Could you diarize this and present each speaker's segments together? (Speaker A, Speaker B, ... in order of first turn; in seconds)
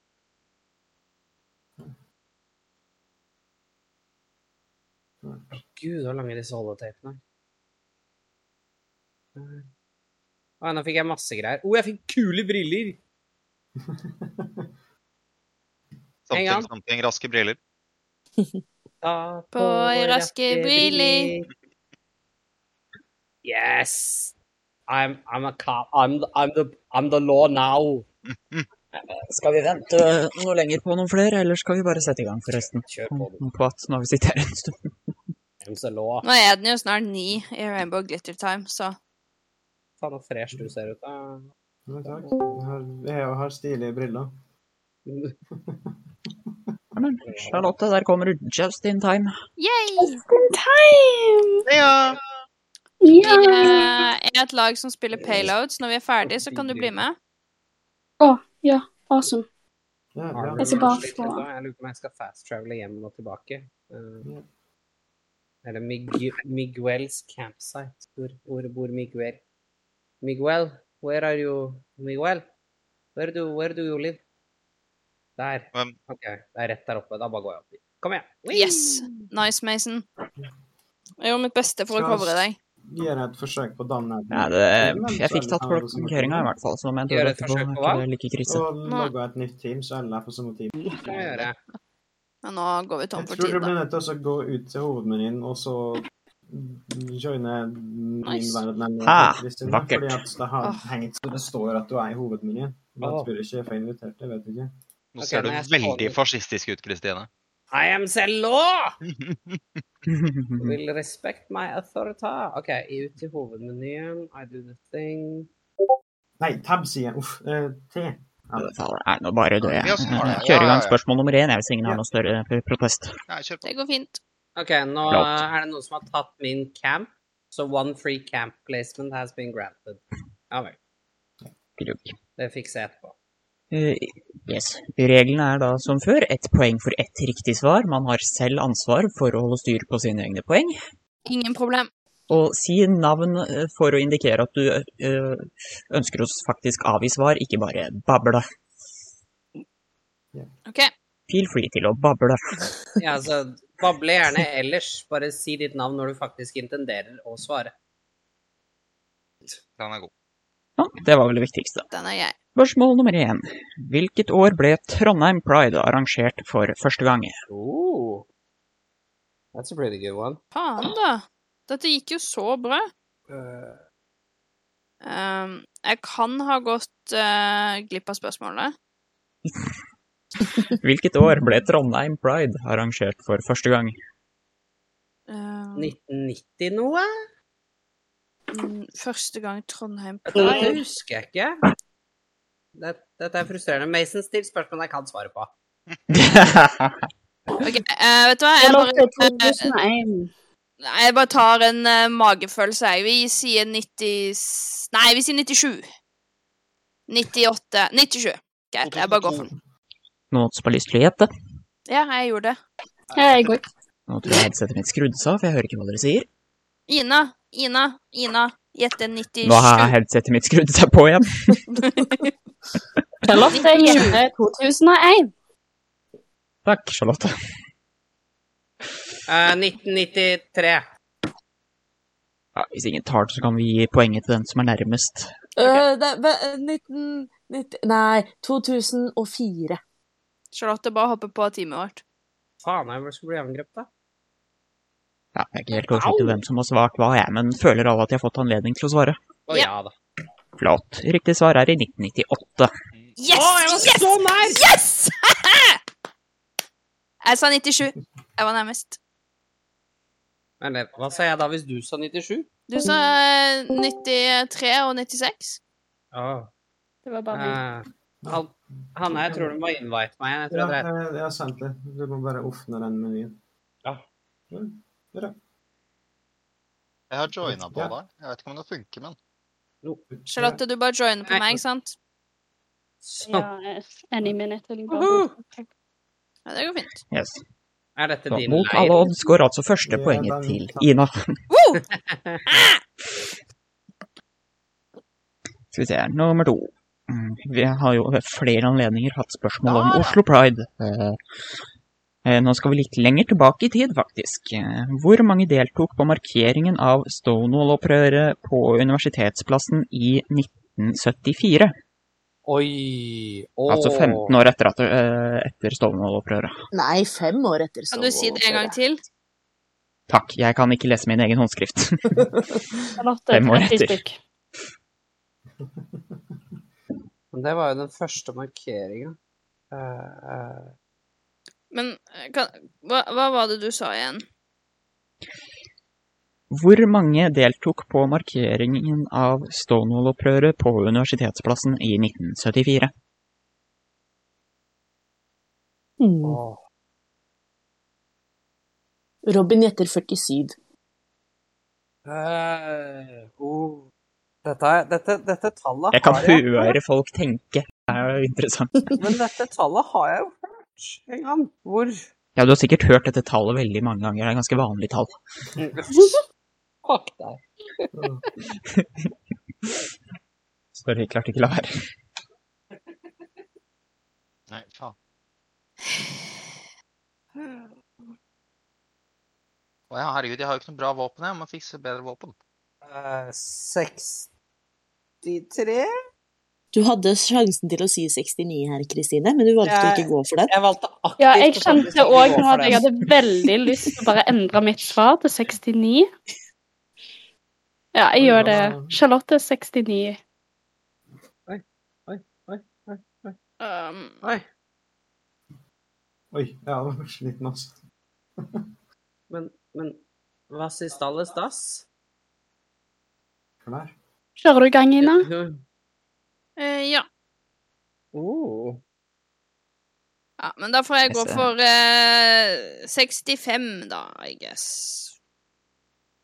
Speaker A: 5.2-5.6, 13.8-14.7, 41.9-44.4, 45.5-46.0, 60.1-61.0, 81.9-86.5, 88.5-91.5, 93.2-104.7, 116.4-118.8, 269.0-269.6, 270.5-273.4, 274.5-275.4, 277.4-277.9, 280.1-280.6, 289.9-290.9, 367.9-368.2, 398.2-398.9, 406.3-407.8, 408.4-408.6, 413.6-414.0
Speaker B: 5.6-7.2, 9.4-9.7, 10.6-13.0, 16.3-16.7, 19.0-21.5, 23.4-24.4, 24.9-28.1, 32.5-33.4, 35.6-36.3, 40.0-41.5, 45.1-45.4, 47.2-47.7, 56.2-57.0, 60.3-64.3, 65.6-69.4, 70.2-72.5, 73.2-74.2, 75.4-79.3, 87.1-88.0, 91.0-91.6, 103.0-103.3, 105.2-106.2, 107.7-109.0, 110.6-115.5, 124.6-130.8, 132.4-133.2, 153.0-157.7, 167.5-168.3, 169.5-170.4, 173.3-173.8, 185.8-187.1, 190.3-191.6, 192.8-195.5, 229.3-230.9, 235.6-235.9, 242.6-243.9, 245.9-246.4, 249.5-249.9, 253.3-254.7, 260.6-262.5, 266.1-266.5, 267.3-270.9, 281.3-281.6, 283.0-283.5, 284.9-285.4, 288.0-289.1, 291.9-292.4, 312.5-314.3, 327.3-329.2, 329.7-330.7, 346.2-346.6, 352.1-353.9, 354.4-356.5, 359.0-362.1, 365.6-366.2, 366.9-367.9, 382.8-384.3, 385.2-385.9, 389.6-392.8, 401.5-403.4, 409.3-410.0, 410.5-411.9, 415.0-415.6, 418.1-418.8
Speaker C: 16.3-17.6, 28.3-28.7, 51.7-52.2, 105.2-107.3, 109.1-109.6, 119.6-121.0, 123.3-123.7, 159.8-160.1, 208.8-209.4, 277.1-279.2, 374.5-374.9, 379.9-382.3
Speaker D: 19.5-21.3, 36.2-39.0, 49.6-50.2, 53.2-57.1, 78.5-80.0, 81.2-82.6, 88.8-89.1, 92.4-93.7, 98.2-98.6, 100.6-100.9, 123.6-124.2, 141.3-141.9, 161.9-162.3, 170.5-172.9, 175.0-178.7, 185.3-185.9, 188.5-190.7, 197.6-199.7, 200.8-205.9, 207.1-209.5, 211.9-212.6, 216.9-219.9, 221.8-222.3, 223.5-224.2, 240.5-242.0, 253.2-255.8, 257.2-259.0, 262.7-265.6, 280.3-282.0, 286.5-287.0, 291.5-291.8, 292.5-292.8, 317.9-319.0, 331.7-334.2, 403.6-404.2, 416.6-417.1, 420.4-425.1
Speaker E: 28.9-34.9, 47.0-49.3, 84.3-88.7, 99.0-100.2, 110.1-110.8, 118.6-123.1, 125.1-125.4, 131.8-132.2, 133.7-140.8, 142.3-148.4, 151.3-152.4, 160.8-161.9, 162.5-167.3, 180.8-184.0, 196.1-197.0, 210.3-211.3, 214.1-216.3, 219.4-221.6, 226.7-227.3, 232.6-235.3, 245.4-249.2, 250.6-252.7, 287.1-287.4, 288.3-291.2, 295.7-301.2, 302.2-311.7, 313.7-316.5, 320.1-322.2, 323.3-324.0, 336.5-342.9, 355.9-358.9, 362.4-365.1, 370.8-371.7, 421.1-421.5
Speaker F: 50.0-51.7, 53.0-54.1, 58.2-59.5, 60.6-61.5, 190.3-190.7, 198.6-200.3, 213.1-213.7, 223.2-225.3, 267.1-267.6, 283.2-285.7, 323.0-324.2, 391.2-396.1, 397.9-400.2, 414.4-415.3
Speaker G: 235.6-239.8, 316.7-318.8, 346.0-346.4, 349.3-350.5, 386.7-390.5